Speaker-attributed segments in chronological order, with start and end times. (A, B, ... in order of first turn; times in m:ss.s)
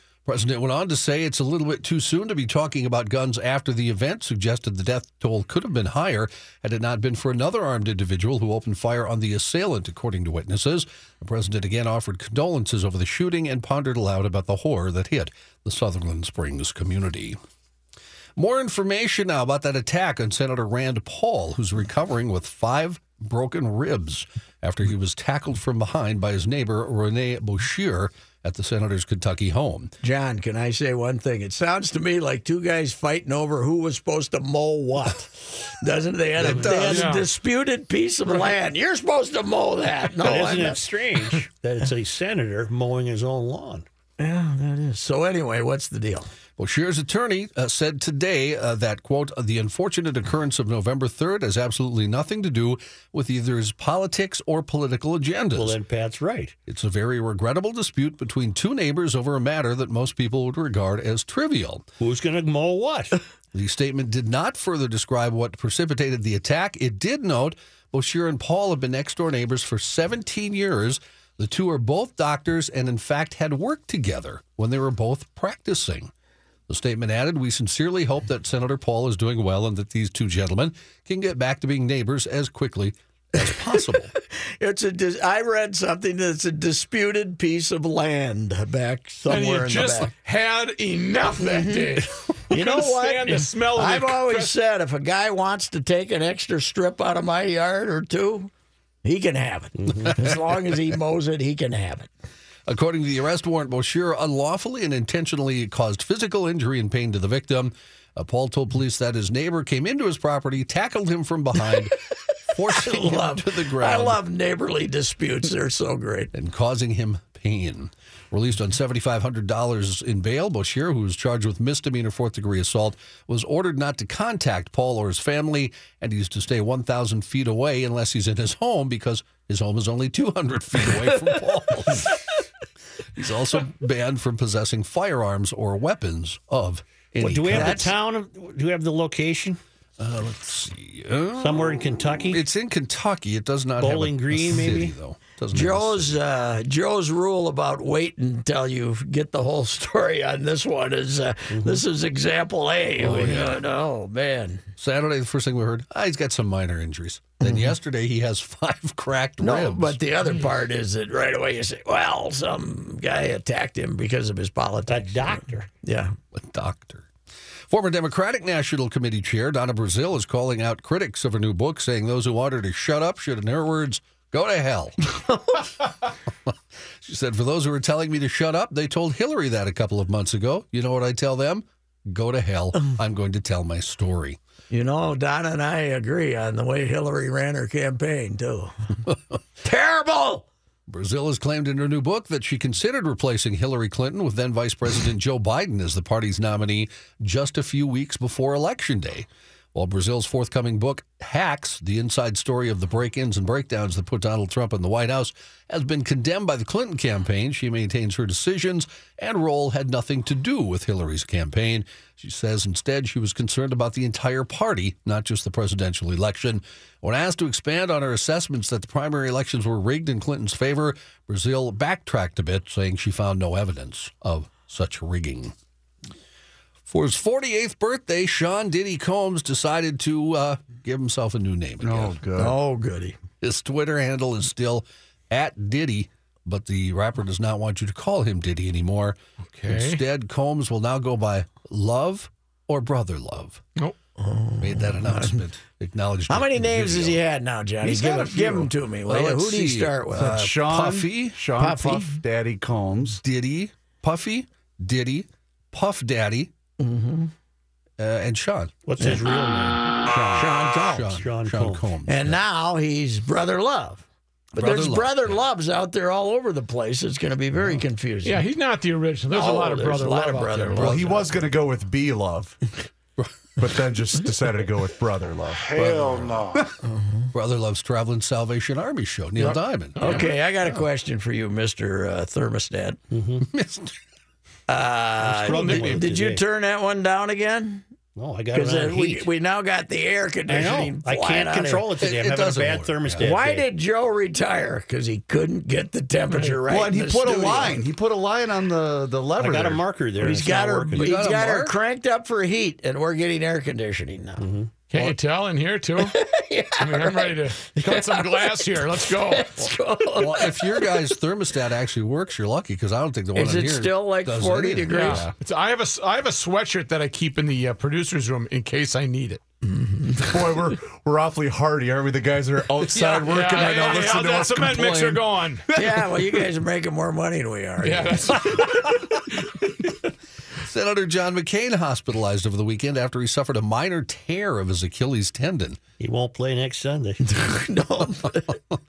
0:00.3-0:17.4 A
0:18.4-0:29.9 A
0:30.0-0:40.8 B
0:36.4-0:37.1 C
0:36.8-0:37.3 D
0:40.2-0:43.9 C
0:44.2-0:46.3 B
0:46.6-0:55.8 A
0:55.6-0:56.5 C
0:56.7-1:01.9 A
1:02.0-1:03.2 C
1:03.5-1:16.1 A
1:16.7-1:24.1 A
1:24.6-1:30.1 B
1:29.3-1:34.5 D
1:31.4-1:38.5 B
1:39.0-1:42.1 B
1:39.8-1:40.1 C
1:42.7-1:52.0 A
1:52.5-1:54.2 A
1:52.7-1:56.3 B
1:56.3-2:12.2 A
2:13.2-2:17.9 A
2:17.2-2:19.6 C
2:17.5-2:17.8 B
2:20.0-2:21.7 A
2:21.4-2:22.4 C
2:22.3-2:26.2 A
2:23.8-2:25.0 C
2:25.5-2:34.6 B
2:31.5-2:31.8 C
2:33.0-2:33.6 A
2:34.8-2:40.0 A
2:37.4-2:37.7 B
2:39.4-2:46.2 B
2:44.9-2:45.6 C
2:46.3-2:47.1 A
2:47.7-2:55.0 A
2:57.0-3:04.4 A
3:04.7-3:08.7 B
3:09.6-3:10.5 B
3:10.9-3:45.5 A
3:46.9-3:52.2 A
3:51.8-3:52.6 E
3:52.4-3:53.2 B
3:53.4-4:03.6 A
3:59.5-4:00.0 D
4:04.2-4:05.4 B
4:04.6-4:07.2 A
4:06.3-4:10.4 B
4:07.8-4:08.7 E
4:09.1-4:11.4 A
4:10.1-4:13.2 E
4:11.6-4:12.2 B
4:13.2-4:16.5 A
4:16.8-4:17.3 B
4:18.0-4:18.8 A
4:18.9-4:20.1 C
4:20.3-4:21.2 B
4:20.8-4:22.4 A
4:21.2-4:21.9 C
4:22.1-4:24.0 B
4:24.6-4:25.4 A
4:24.6-4:28.5 B
4:28.2-4:31.0 D
4:29.3-4:31.4 B
4:30.8-4:32.6 E
4:33.6-4:36.7 E
4:36.8-4:37.3 B
4:37.3-4:40.8 A
4:39.4-4:43.0 B
4:40.0-4:40.3 D
4:43.1-4:43.5 C
4:43.4-4:43.9 A
4:44.7-4:47.8 B
4:45.2-4:46.4 C
4:45.4-4:46.0 D
4:48.2-4:49.3 C
4:48.5-4:51.9 B
4:50.5-4:53.7 C
4:52.0-4:53.3 A
4:53.2-4:57.8 B
4:56.3-4:56.6 D
4:56.7-4:59.8 E
4:59.4-5:01.2 C
5:00.2-5:04.5 B
5:01.0-5:01.8 A
5:04.4-5:04.7 C
5:04.9-5:06.2 D
5:06.0-5:11.0 B
5:06.8-5:09.7 D
5:10.2-5:15.3 A
5:13.3-5:15.3 B
5:14.9-5:19.4 D
5:19.6-5:20.3 B
5:20.2-5:25.2 E
5:23.0-5:25.6 D
5:25.8-5:28.7 B
5:27.8-5:28.8 D
5:30.6-5:35.8 A
5:36.0-5:37.2 C
5:37.2-5:38.5 B